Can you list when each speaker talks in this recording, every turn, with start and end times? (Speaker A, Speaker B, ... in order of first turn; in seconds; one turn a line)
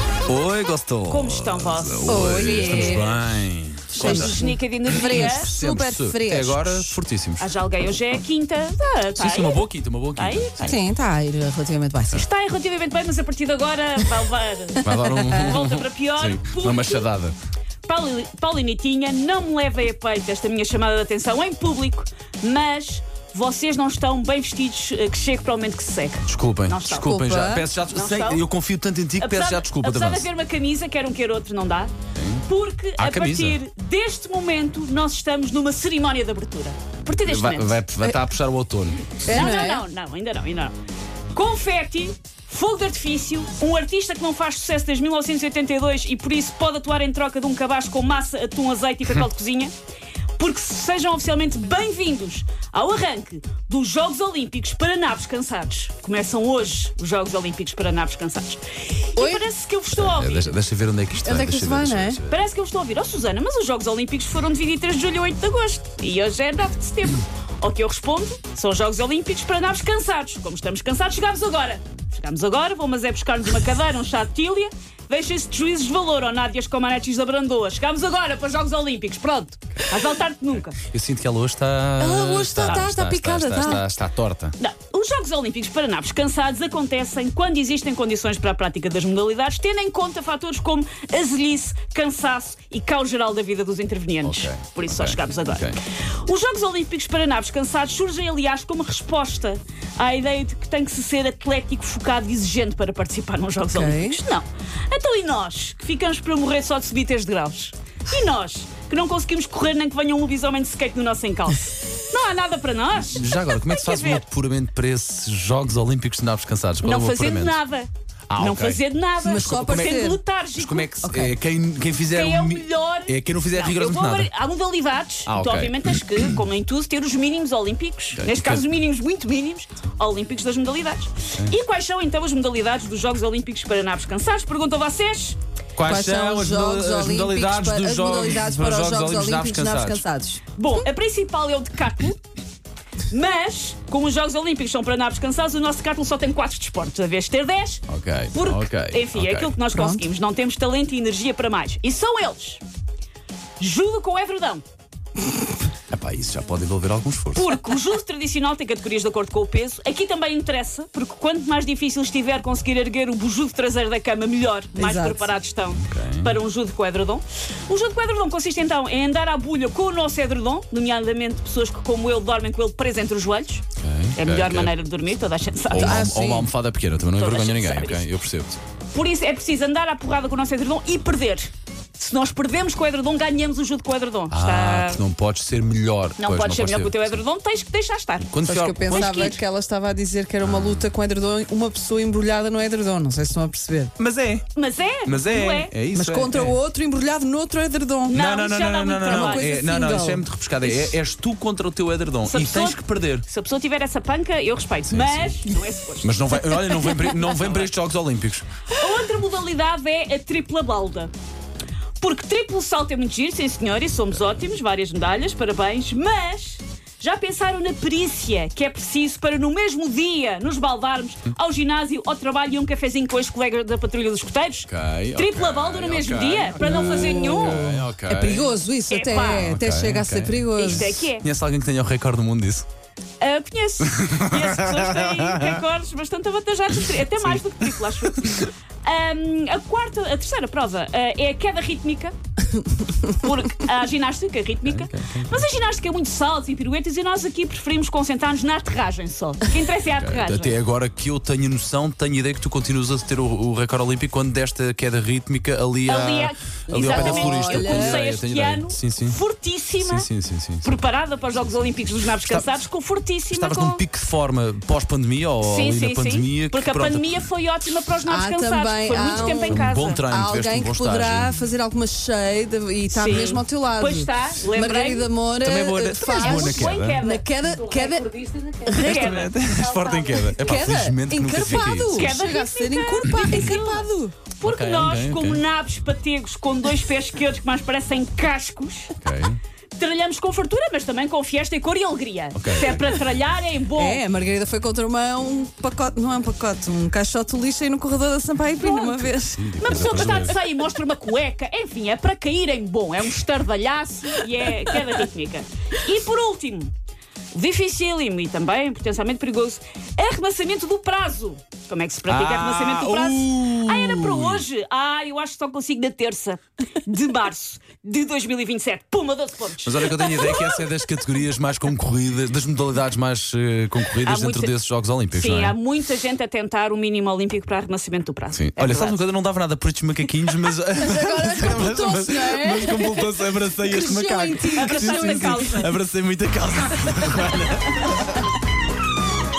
Speaker A: 0.3-7.5
Speaker B: 1.1-3.0
Speaker C: 2.1-3.3
Speaker C: 3.9-6.9
Speaker B: 4.0-5.5
Speaker B: 7.4-9.6
Speaker A: 9.2-10.8
Speaker B: 10.2-10.5
Speaker C: 10.6-12.3
Speaker B: 12.1-17.1
Speaker A: 14.8-17.4
Speaker C: 14.8-15.4
Speaker B: 17.9-27.1
Speaker A: 26.3-30.3
Speaker C: 26.9-27.7
Speaker B: 27.9-28.5
Speaker B: 29.2-31.9
Speaker A: 32.2-32.4
Speaker B: 32.5-37.8
Speaker A: 33.0-33.6
Speaker A: 37.1-39.2
Speaker C: 39.2-39.8
Speaker B: 39.3-40.7
Speaker B: 41.3-49.7
Speaker B: 50.4-60.5
Speaker C: 59.2-59.4
Speaker A: 59.9-62.4
Speaker C: 61.2-62.2
Speaker B: 62.3-80.8
Speaker A: 80.7-84.5
Speaker C: 82.0-83.8
Speaker B: 82.7-82.9
Speaker B: 84.6-114.2
Speaker A: 94.2-95.8
Speaker C: 103.7-104.2
Speaker A: 113.0-117.6
Speaker B: 116.8-120.9
Speaker A: 118.3-118.8
Speaker C: 119.2-120.2
Speaker A: 119.4-120.0
Speaker A: 120.5-124.3
Speaker C: 121.0-121.3
Speaker B: 122.1-135.4
Speaker A: 125.3-126.4
Speaker A: 128.2-128.6
Speaker A: 135.8-140.1
Speaker C: 135.8-140.4
Speaker B: 140.6-142.2
Speaker B: 143.1-152.6
Speaker A: 147.9-149.6
Speaker C: 149.7-150.0
Speaker B: 153.6-154.6
Speaker A: 155.9-157.8
Speaker B: 157.3-176.1
Speaker C: 164.8-165.3
Speaker A: 165.7-166.4
Speaker A: 173.8-174.7
Speaker A: 175.7-178.6
Speaker C: 175.7-176.5
Speaker B: 177.2-178.1
Speaker B: 178.9-185.0
Speaker A: 184.3-187.2
Speaker B: 186.2-188.3
Speaker A: 188.3-189.4
Speaker C: 188.4-193.9
Speaker B: 188.9-189.4
Speaker A: 190.4-190.8
Speaker A: 194.0-194.5
Speaker B: 194.6-195.8
Speaker A: 195.1-196.6
Speaker C: 195.9-198.2
Speaker B: 198.1-199.5
Speaker A: 198.1-203.2
Speaker C: 199.1-200.2
Speaker B: 202.2-206.2
Speaker A: 204.9-205.4
Speaker A: 206.0-208.4
Speaker B: 207.2-207.7
Speaker B: 208.7-211.1
Speaker B: 212.0-227.6
Speaker A: 224.7-228.5
Speaker C: 226.6-231.0
Speaker B: 228.9-229.6
Speaker A: 229.3-232.7
Speaker B: 230.6-231.3
Speaker B: 233.2-242.2
Speaker A: 234.0-235.6
Speaker A: 237.0-238.4
Speaker B: 243.0-250.6
Speaker A: 244.7-245.5
Speaker A: 250.0-259.2
Speaker B: 255.9-260.1
Speaker C: 256.7-258.0
Speaker A: 259.8-260.8
Speaker B: 260.6-263.8
Speaker A: 261.4-262.5
Speaker A: 263.3-267.3
Speaker B: 265.4-270.1
Speaker C: 268.1-279.0
Speaker A: 269.0-271.4
Speaker B: 272.9-275.1
Speaker A: 275.4-277.0
Speaker B: 276.1-277.3
Speaker B: 278.1-279.6
Speaker A: 278.7-282.2
Speaker C: 280.3-284.1
Speaker B: 281.8-288.9
Speaker A: 284.4-285.4
Speaker A: 289.0-289.4
Speaker B: 289.8-294.0
Speaker A: 292.4-293.0
Speaker C: 293.8-300.4
Speaker B: 298.6-299.1
Speaker A: 299.1-300.4
Speaker B: 299.6-306.7
Speaker B: 307.3-320.6
Speaker A: 312.1-314.4
Speaker A: 319.6-325.6
Speaker B: 324.0-324.5
Speaker B: 325.1-329.0
Speaker A: 328.3-338.0
Speaker C: 330.8-335.6
Speaker B: 334.6-335.7